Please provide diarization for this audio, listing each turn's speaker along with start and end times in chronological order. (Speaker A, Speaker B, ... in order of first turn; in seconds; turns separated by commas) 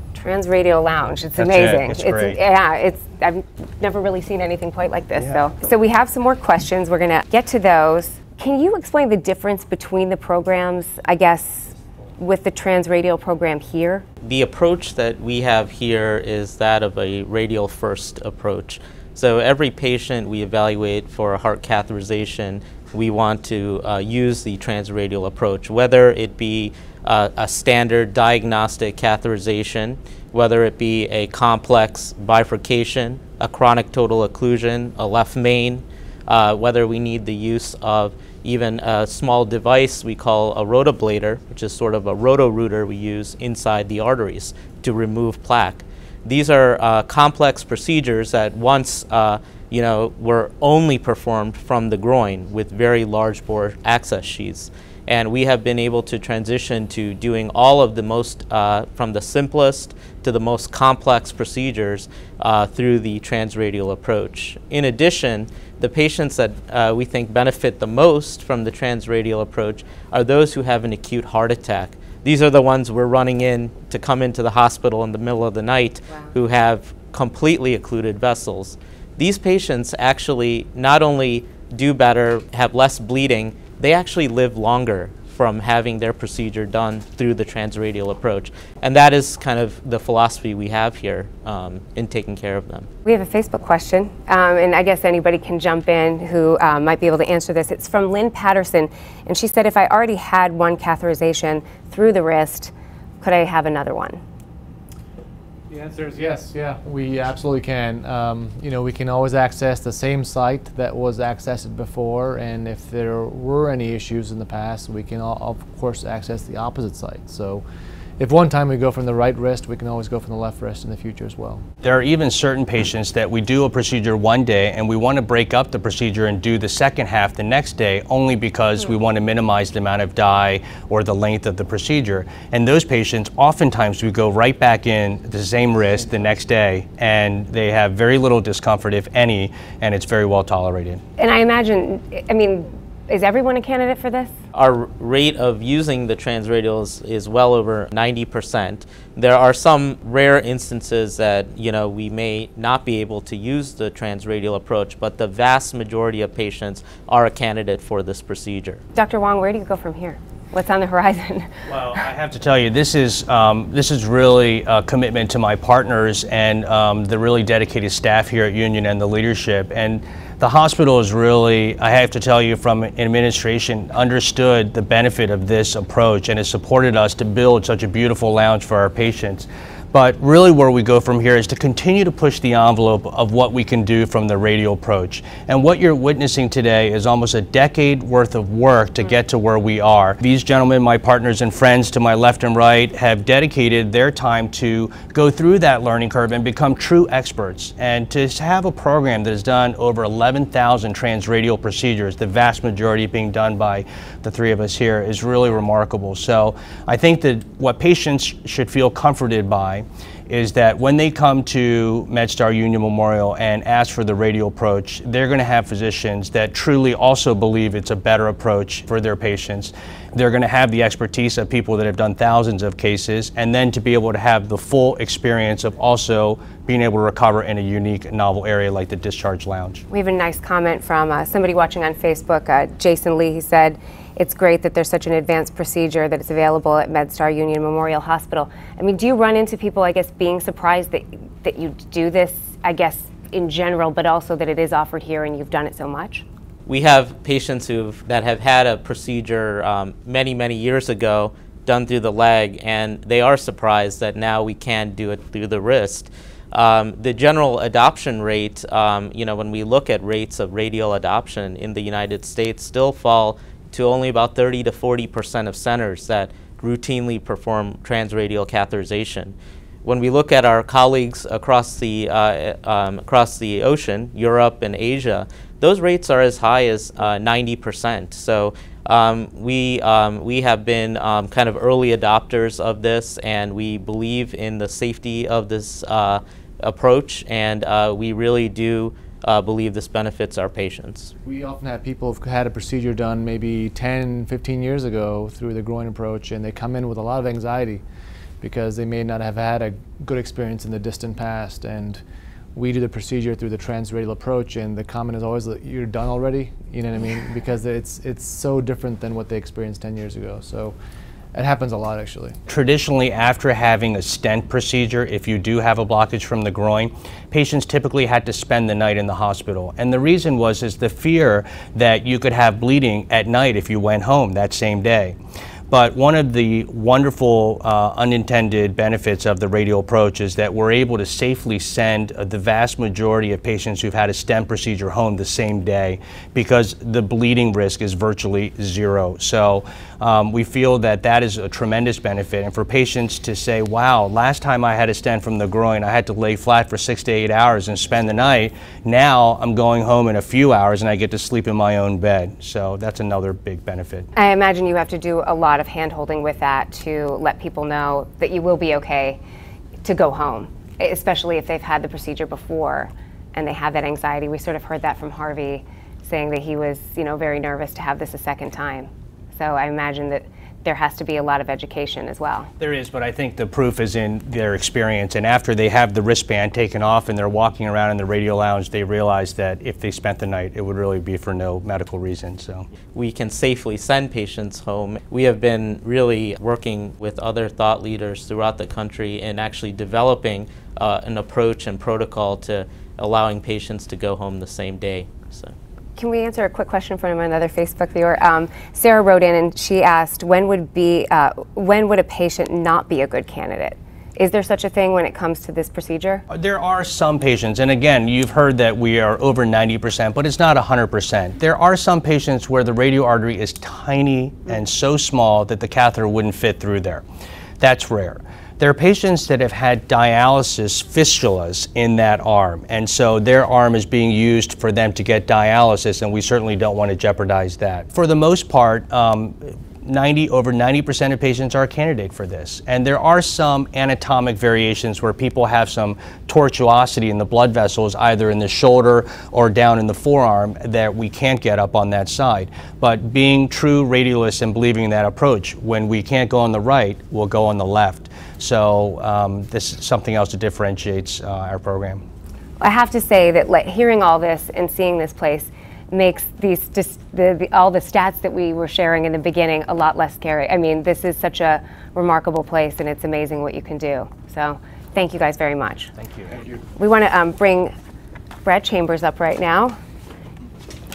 Speaker A: 0.1-14.0, Speaker B: 1.4-2.4, Speaker C: 14.2-92.9, Speaker A: 76.1-76.3, Speaker A: 93.0-104.2, Speaker D: 105.7-117.6, Speaker D: 118.2-121.6, Speaker B: 121.8-141.0, Speaker A: 141.2-144.3, Speaker C: 144.5-158.8, Speaker A: 158.9-161.5, Speaker B: 161.7-229.8, Speaker A: 229.9-246.2, Speaker C: 246.7-291.1, Speaker D: 291.2-297.8, Speaker D: 298.4-302.0, Speaker D: 302.5-310.8, Speaker D: 311.3-312.4, Speaker B: 312.5-325.2, Speaker B: 325.7-354.1, Speaker A: 354.1-359.2, Speaker A: 359.8-372.5, Speaker B: 372.6-382.7, Speaker C: 382.9-395.6, Speaker A: 396.0-406.2, Speaker B: 406.3-417.0, Speaker B: 417.6-452.0, Speaker A: 452.6-465.9, Speaker B: 466.0-466.3, Speaker A: 466.8-467.7, Speaker A: 468.4-469.8